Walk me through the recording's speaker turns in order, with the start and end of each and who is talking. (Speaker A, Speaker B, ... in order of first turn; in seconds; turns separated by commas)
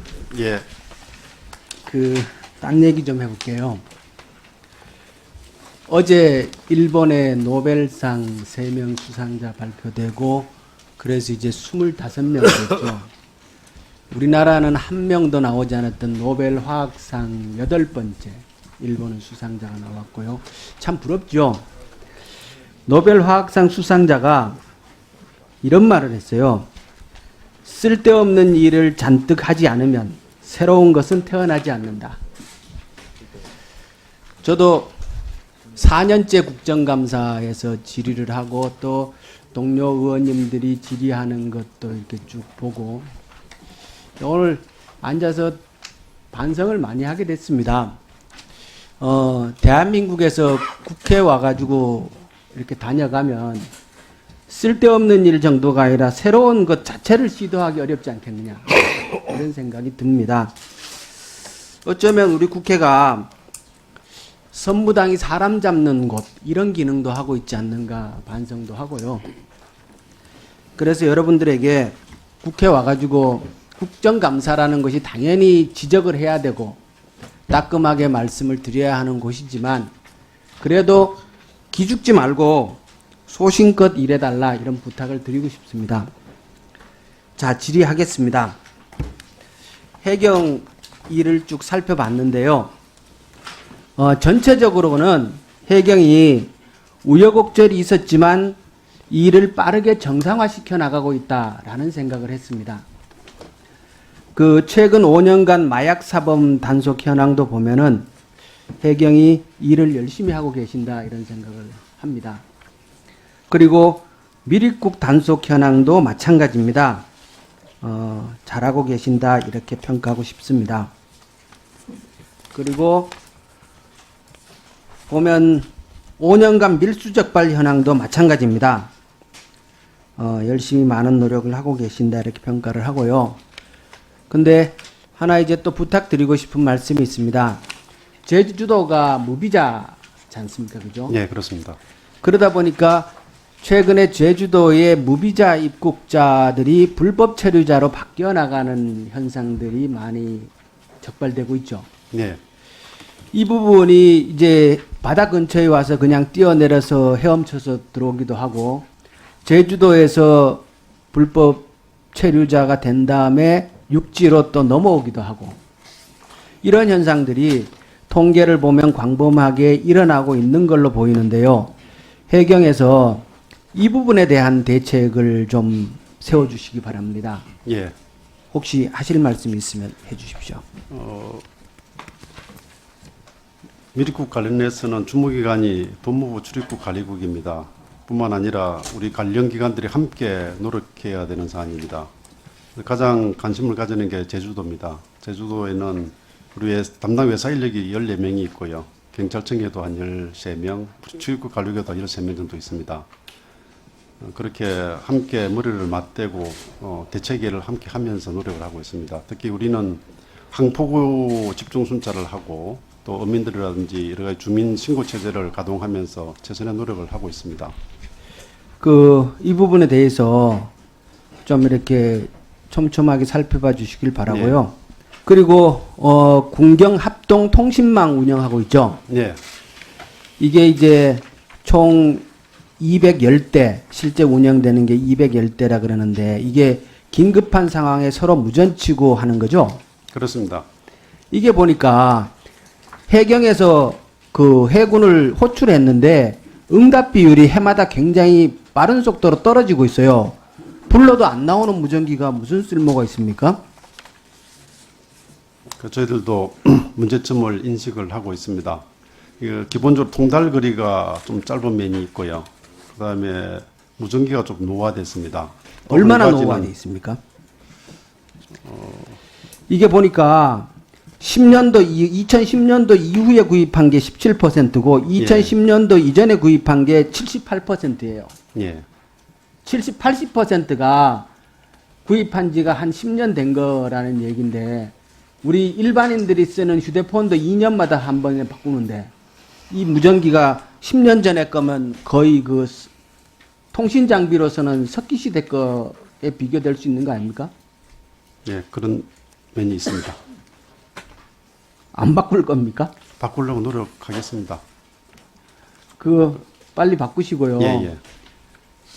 Speaker A: 0.3-0.7, Speaker B: 1.9-3.8, Speaker B: 5.9-13.1, Speaker B: 14.1-21.6, Speaker B: 22.9-24.6, Speaker B: 25.6-26.7, Speaker B: 27.6-32.2, Speaker B: 34.4-35.0, Speaker B: 35.8-43.1, Speaker B: 44.2-45.6, Speaker B: 46.3-48.0, Speaker B: 49.0-53.7, Speaker B: 54.5-60.5, Speaker B: 61.9-63.3, Speaker B: 64.5-69.3, Speaker B: 70.8-76.8, Speaker B: 77.5-79.9, Speaker B: 80.6-86.1, Speaker B: 87.4-88.5, Speaker B: 90.0-92.7, Speaker B: 94.0-96.5, Speaker B: 97.0-98.6, Speaker B: 99.1-102.8, Speaker B: 104.4-108.1, Speaker B: 108.8-112.4, Speaker B: 113.5-117.0, Speaker B: 117.8-120.9, Speaker B: 122.5-123.1, Speaker B: 125.1-125.7, Speaker B: 126.2-128.9, Speaker B: 130.2-133.4, Speaker B: 134.3-137.6, Speaker B: 138.2-141.2, Speaker A: 141.1-141.8, Speaker B: 142.2-150.5, Speaker B: 151.0-151.9, Speaker A: 152.1-152.4, Speaker B: 153.3-158.9, Speaker B: 159.4-165.6, Speaker B: 166.6-171.7, Speaker B: 172.3-177.4, Speaker A: 177.7-177.9, Speaker B: 178.5-180.6, Speaker A: 180.9-181.4, Speaker A: 183.9-192.1, Speaker A: 192.8-203.1, Speaker A: 204.2-217.7, Speaker B: 218.8-220.7, Speaker B: 221.5-229.0, Speaker A: 224.3-224.6, Speaker A: 229.1-229.4, Speaker B: 230.4-232.2, Speaker B: 232.8-239.8, Speaker A: 240.1-240.7, Speaker B: 241.3-242.3, Speaker B: 243.1-250.4, Speaker B: 250.9-253.6, Speaker A: 255.8-258.8, Speaker A: 259.4-266.7, Speaker B: 265.9-267.2, Speaker A: 268.6-269.2, Speaker B: 269.7-278.3, Speaker A: 275.2-275.5, Speaker A: 278.5-278.9, Speaker B: 279.6-281.3, Speaker B: 282.1-289.1, Speaker B: 289.7-292.9, Speaker B: 293.7-297.5, Speaker A: 298.5-300.2, Speaker B: 301.9-302.9, Speaker A: 303.2-304.6, Speaker B: 306.0-307.9, Speaker A: 307.6-308.0